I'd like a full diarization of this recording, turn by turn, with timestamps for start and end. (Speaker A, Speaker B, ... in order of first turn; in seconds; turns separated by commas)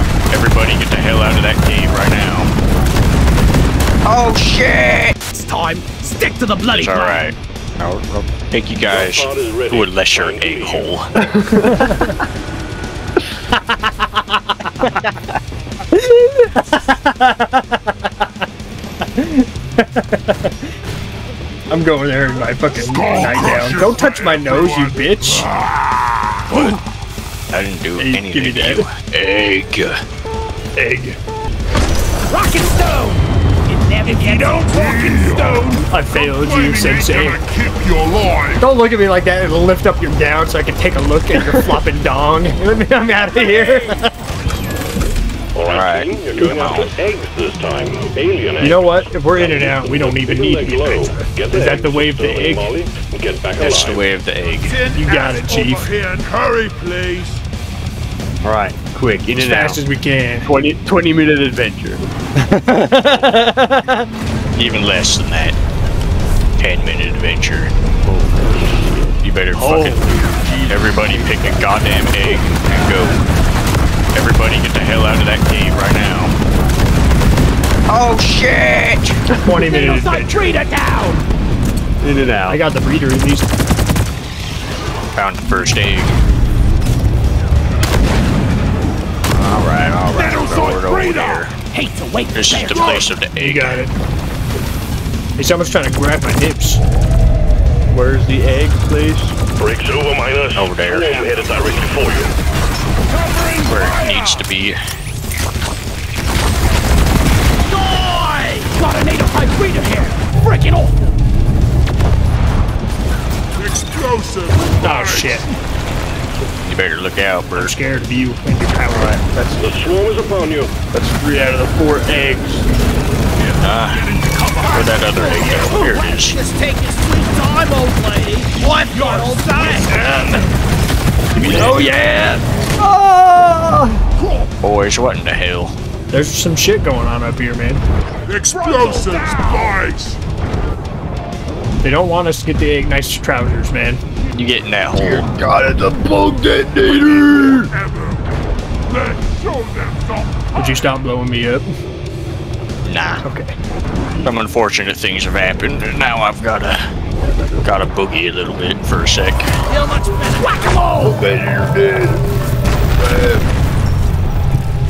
Speaker A: 0.3-2.5, Speaker A: 4.1-5.2, Speaker B: 5.3-7.2, Speaker A: 6.7-11.1, Speaker C: 8.9-10.9, Speaker D: 11.4-11.7, Speaker E: 11.6-12.1, Speaker E: 15.9-17.9, Speaker E: 19.2-20.6, Speaker E: 21.7-25.5, Speaker F: 22.8-25.9, Speaker A: 26.5-26.8, Speaker A: 27.5-30.0, Speaker E: 28.0-28.9, Speaker E: 30.8-31.2, Speaker B: 32.3-35.9, Speaker F: 34.1-38.6, Speaker E: 35.9-37.5, Speaker E: 38.6-44.1, Speaker C: 45.5-54.0, Speaker A: 45.7-46.9, Speaker E: 48.6-52.7, Speaker A: 53.6-54.8, Speaker F: 54.6-57.4, Speaker E: 54.9-55.9, Speaker D: 58.4-59.8, Speaker E: 59.4-60.5, Speaker D: 60.4-62.1, Speaker E: 62.5-63.8, Speaker A: 64.5-65.6, Speaker A: 66.6-67.7, Speaker D: 68.0-70.7, Speaker A: 69.2-70.1, Speaker A: 70.7-73.2, Speaker A: 74.1-76.3, Speaker A: 77.9-79.2, Speaker E: 79.4-80.5, Speaker B: 79.7-81.2, Speaker D: 82.0-82.6, Speaker E: 82.5-83.5, Speaker A: 85.2-86.2, Speaker A: 89.3-91.6, Speaker F: 90.2-91.4, Speaker B: 91.7-93.0, Speaker A: 92.3-93.9, Speaker F: 92.5-93.1, Speaker E: 93.4-93.9, Speaker E: 95.4-96.8, Speaker D: 97.9-99.3, Speaker C: 99.6-102.3, Speaker A: 100.5-101.2, Speaker A: 103.6-104.8, Speaker B: 107.7-111.0, Speaker F: 113.6-115.5, Speaker E: 114.8-115.5, Speaker A: 116.5-117.8, Speaker E: 117.5-119.2, Speaker D: 118.9-119.8, Speaker C: 119.6-120.8, Speaker D: 120.9-122.7, Speaker F: 123.5-125.3, Speaker A: 123.5-126.4, Speaker B: 124.6-130.4, Speaker F: 129.2-130.2, Speaker B: 131.4-132.4, Speaker E: 132.8-134.0, Speaker A: 134.6-135.8, Speaker E: 136.1-137.8, Speaker F: 138.3-140.2, Speaker B: 138.6-139.8, Speaker E: 141.8-144.0, Speaker A: 144.3-145.3, Speaker D: 145.0-147.7, Speaker F: 147.8-148.2, Speaker F: 148.9-150.4, Speaker E: 150.6-151.7, Speaker A: 152.8-153.2, Speaker E: 153.2-153.6, Speaker A: 154.2-156.8, Speaker A: 157.6-159.5, Speaker B: 159.7-161.2, Speaker D: 161.1-162.2